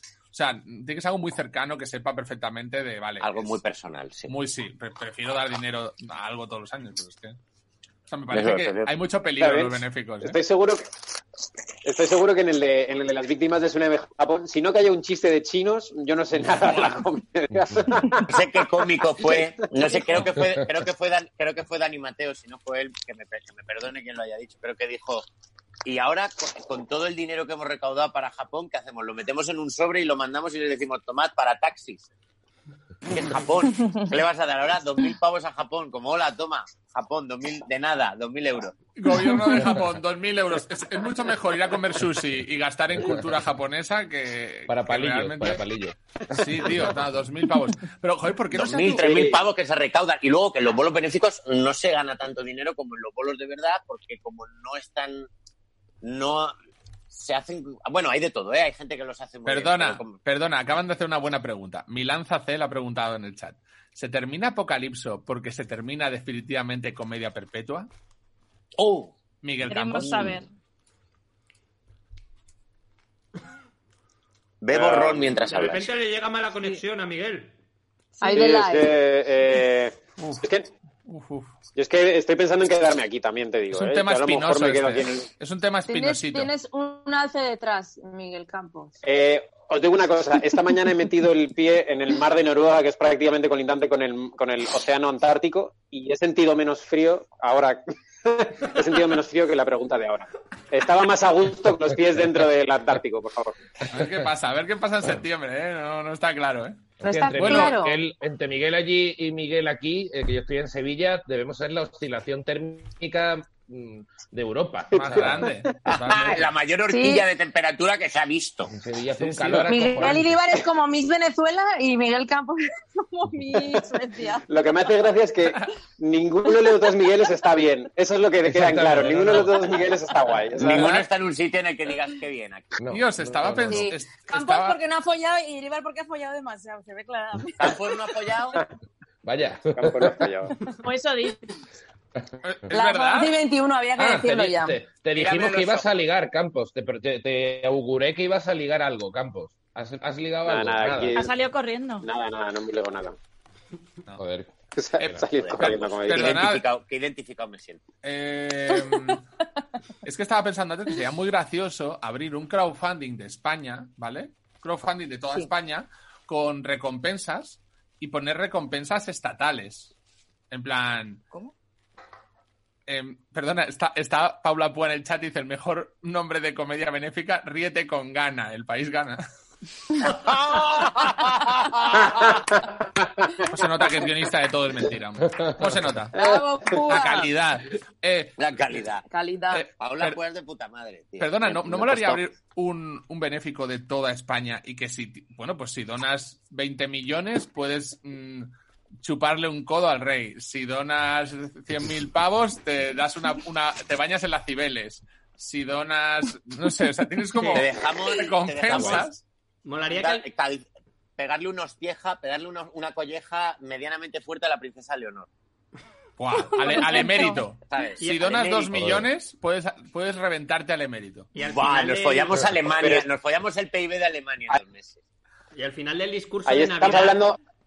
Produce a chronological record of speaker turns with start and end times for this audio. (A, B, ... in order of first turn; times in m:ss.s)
0:00.3-0:03.5 A
0:03.2-0:04.3 B
0:04.3-0:07.4 A
0:08.1-0:10.4 A
0:08.3-0:08.9 B
0:09.4-0:11.0 C
0:11.8-0:18.4 C
0:17.6-0:18.0 D
0:18.3-0:25.3 B
0:19.2-0:20.0 C
0:25.8-0:32.1 B
0:33.1-0:38.8 B
0:39.0-0:45.6 A
0:44.7-0:46.9 D
0:46.3-0:49.1 A
0:48.5-0:55.3 B
0:49.0-0:49.4 C
0:56.0-0:56.6 B
0:57.1-1:00.2 B
0:59.5-1:07.9 A
1:08.8-1:09.1 B
1:09.4-1:10.4 A
1:09.7-1:10.5 E
1:14.6-1:15.9 B
1:14.7-1:15.4 C
1:15.5-1:17.5 F
1:18.2-1:19.0 G
1:18.2-1:20.7 C
1:21.1-1:21.5 A
1:21.8-1:25.3 C
1:23.7-1:26.5 A
1:25.9-1:29.0 G
1:29.0-1:43.6 C
1:43.9-1:47.8 A
1:47.0-1:48.0 G
1:47.0-1:55.5 D
1:54.9-1:56.5 A
1:55.9-1:58.7 B
1:56.9-1:57.3 G
1:58.7-2:00.3 D
1:59.2-2:00.2 A
1:59.6-2:04.4 G
2:04.5-2:11.0 C
2:08.4-2:09.8 D
2:10.6-2:10.8 D
2:10.6-2:12.8 B
2:12.8-2:13.9 D
2:12.9-2:14.8 A
2:13.7-2:18.2 G
2:17.6-2:18.6 B
2:19.2-2:20.3 D
2:19.8-2:20.6 C
2:20.8-2:21.4 E
2:22.4-2:23.4 A
2:22.7-2:24.8 G
2:24.0-2:31.2 D
2:25.1-2:25.9 B
2:30.5-2:31.3 C
2:31.1-2:32.1 E
2:32.0-2:33.2 C
2:34.2-2:34.5 D
2:34.8-2:36.4 C
2:35.3-2:37.8 B
2:35.6-2:36.6 A
2:38.0-2:39.2 A
2:40.0-2:49.9 A
2:50.5-2:51.2 A
2:52.9-2:59.2 A
3:00.1-3:02.3 B
3:03.4-3:06.2 A
3:05.4-3:05.7 D
3:06.1-3:07.3 G
3:06.9-3:08.4 A
3:08.4-3:09.0 B
3:09.1-3:09.7 G
3:09.5-3:10.2 A
3:09.8-3:11.5 B
3:11.2-3:18.5 A
3:11.7-3:12.2 D
3:19.0-3:29.2 A
3:27.5-3:29.1 B
3:29.6-3:30.2 F
3:29.9-3:30.7 B
3:31.2-3:35.3 B
3:36.2-3:41.3 A
3:36.6-3:37.4 E
3:37.7-3:38.8 B
3:38.0-3:38.3 F
3:38.7-3:39.1 D
3:41.4-3:42.5 F
3:41.4-3:45.0 B
3:42.8-3:43.1 C
3:45.5-3:47.2 F
3:46.5-3:47.4 C